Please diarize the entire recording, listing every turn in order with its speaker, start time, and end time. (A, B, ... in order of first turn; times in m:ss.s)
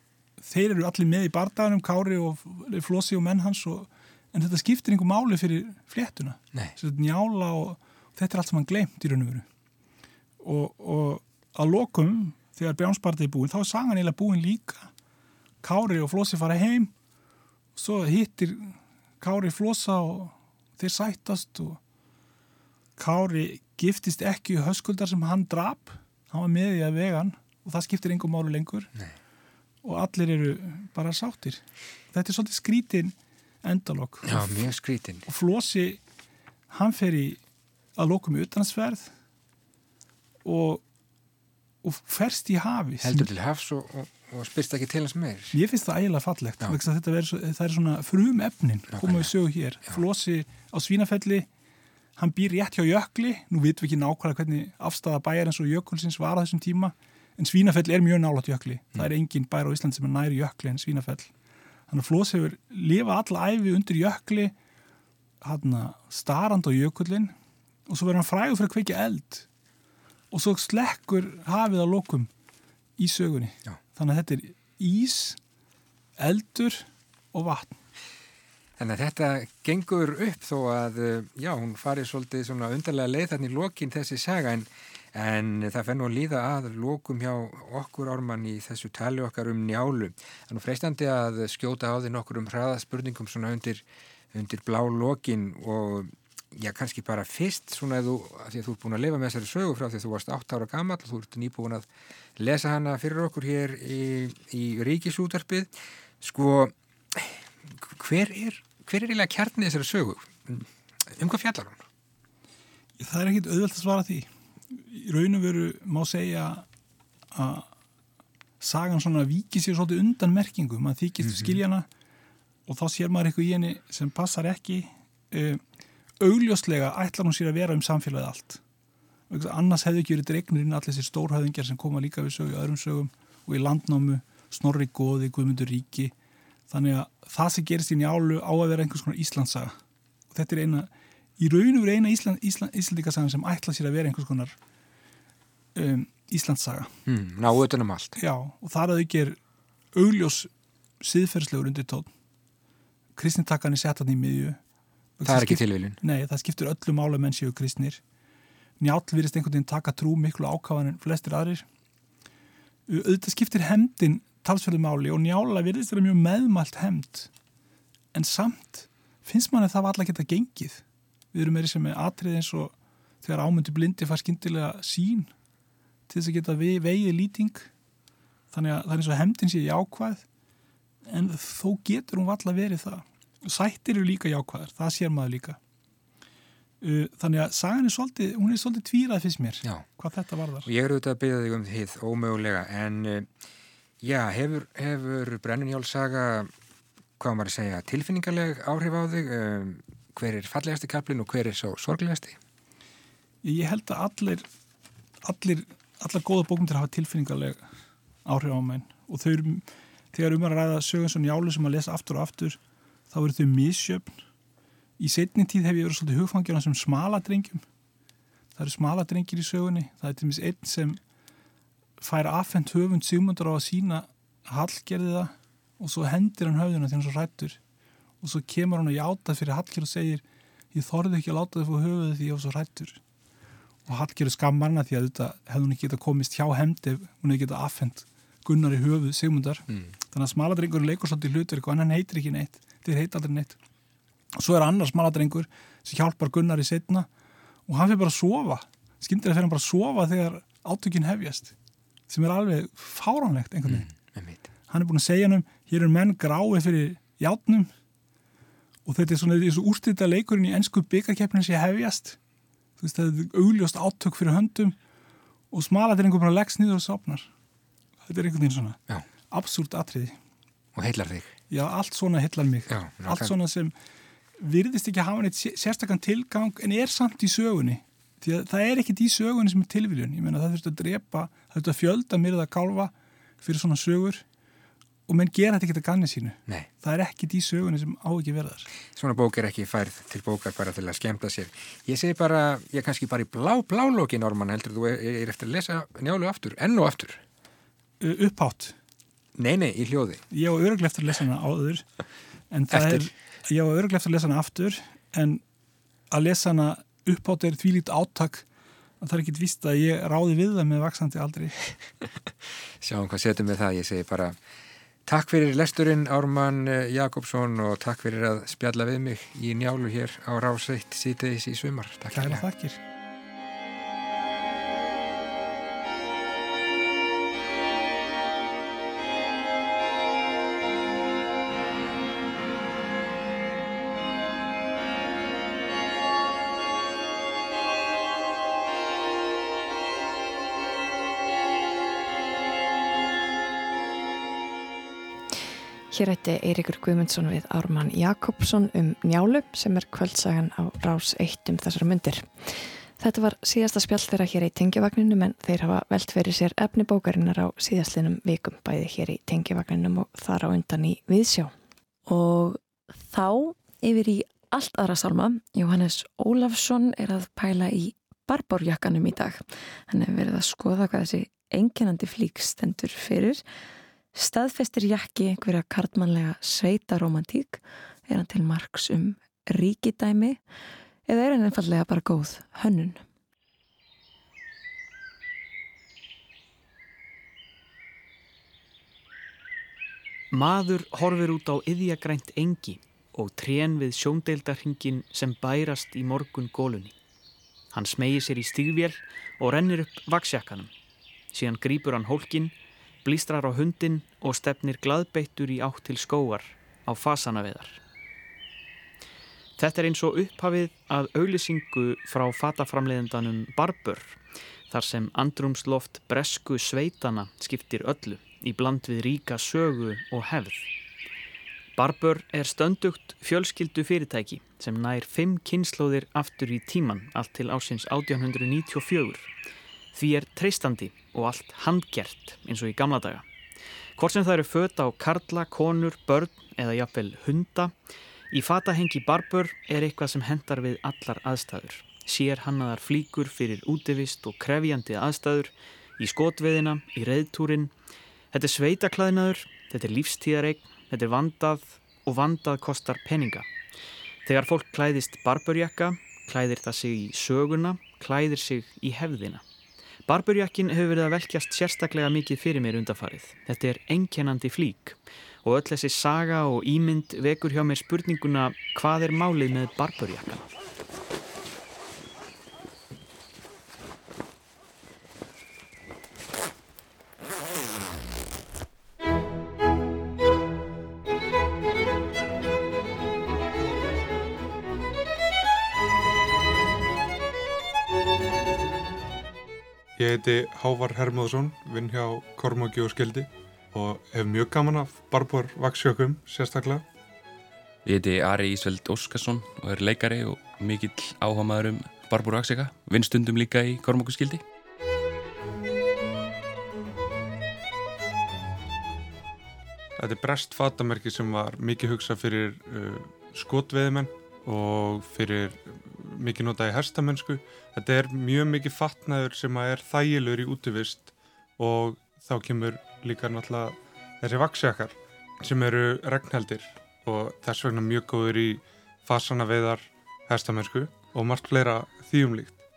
0:00.4-0:09.5 A
0:10.4-0:14.9 A
0:15.6-0:16.9 A
0:17.8-0:21.8 A
0:23.0-0:28.9 A
0:29.8-0:34.7 A
0:34.2-0:35.3 B
0:35.3-0:36.0 A
0:36.7-0:37.4 A
0:38.0-0:39.1 A
0:40.4-0:40.8 A
0:41.8-0:43.3 A
0:43.0-0:45.6 B
0:45.5-0:51.5 A
0:48.9-0:49.3 B
0:52.2-1:01.3 A
1:01.9-1:04.6 A
1:05.4-1:07.4 A
1:07.9-1:09.5 A
1:10.3-1:12.3 A
1:13.0-1:15.4 A
1:16.2-1:17.8 A
1:18.8-1:51.8 B
1:53.0-1:56.7 A
1:57.3-1:57.7 A
1:58.6-2:01.9 A
2:02.7-2:05.6 A
2:06.2-2:08.6 A
2:09.3-2:16.1 A
2:16.7-2:19.8 A
2:20.3-2:24.6 A
2:25.8-2:26.9 A
2:27.1-2:28.2 B
2:28.2-2:29.4 A
2:29.9-2:30.5 A
2:31.0-2:32.1 A
2:33.2-2:34.6 A
2:35.2-2:38.0 A
2:35.2-2:36.0 B
2:38.8-2:41.6 A
2:42.9-2:47.3 A
2:48.1-2:55.3 A
2:56.1-2:57.7 A
2:58.5-3:00.2 A
3:01.1-3:05.6 A
3:06.8-3:10.7 A
3:10.6-3:13.3 B
3:14.0-3:16.5 B
3:17.2-3:22.4 B
3:23.4-3:24.5 A
3:25.2-3:27.7 A
3:28.2-3:32.6 A
3:33.1-3:34.2 A
3:35.0-3:37.6 A
3:38.6-3:41.0 A
3:42.0-3:47.6 A
3:48.2-3:53.0 A
3:53.9-4:03.6 A
4:04.4-4:07.1 A
4:07.7-4:11.5 A
4:12.1-4:13.9 A
4:13.7-4:14.4 B
4:14.7-4:17.7 A
4:18.9-4:22.2 A
4:22.8-4:24.8 A
4:25.5-4:27.3 A
4:28.0-4:28.8 A
4:29.3-4:30.2 A
4:30.8-4:31.4 B
4:31.5-4:33.7 A
4:32.7-4:33.3 B
4:34.4-4:44.2 A
4:45.1-4:48.7 A
4:48.9-4:57.2 B
4:58.0-4:58.8 A
4:59.4-5:00.2 B
5:00.3-5:01.9 A
5:02.5-5:05.4 A
5:02.7-5:03.1 B
5:06.1-5:08.5 A
5:09.0-5:11.7 A
5:12.8-5:14.4 B
5:15.0-5:22.4 B
5:22.1-5:22.8 A
5:45.9-6:01.6 C
6:02.1-6:13.4 D
6:14.1-6:20.4 D
6:21.1-6:23.0 D
6:30.3-6:37.0 E
6:37.7-6:40.7 E
6:41.3-6:47.8 E
6:49.6-7:00.7 E
7:01.8-7:09.3 E
7:09.9-7:13.3 E
7:14.0-7:17.7 E
7:18.3-7:27.7 E
7:28.3-7:33.5 E
7:34.3-7:39.4 E
7:40.1-7:50.5 E
8:10.0-8:16.8 F
8:17.8-8:24.4 G
8:30.0-8:52.6 F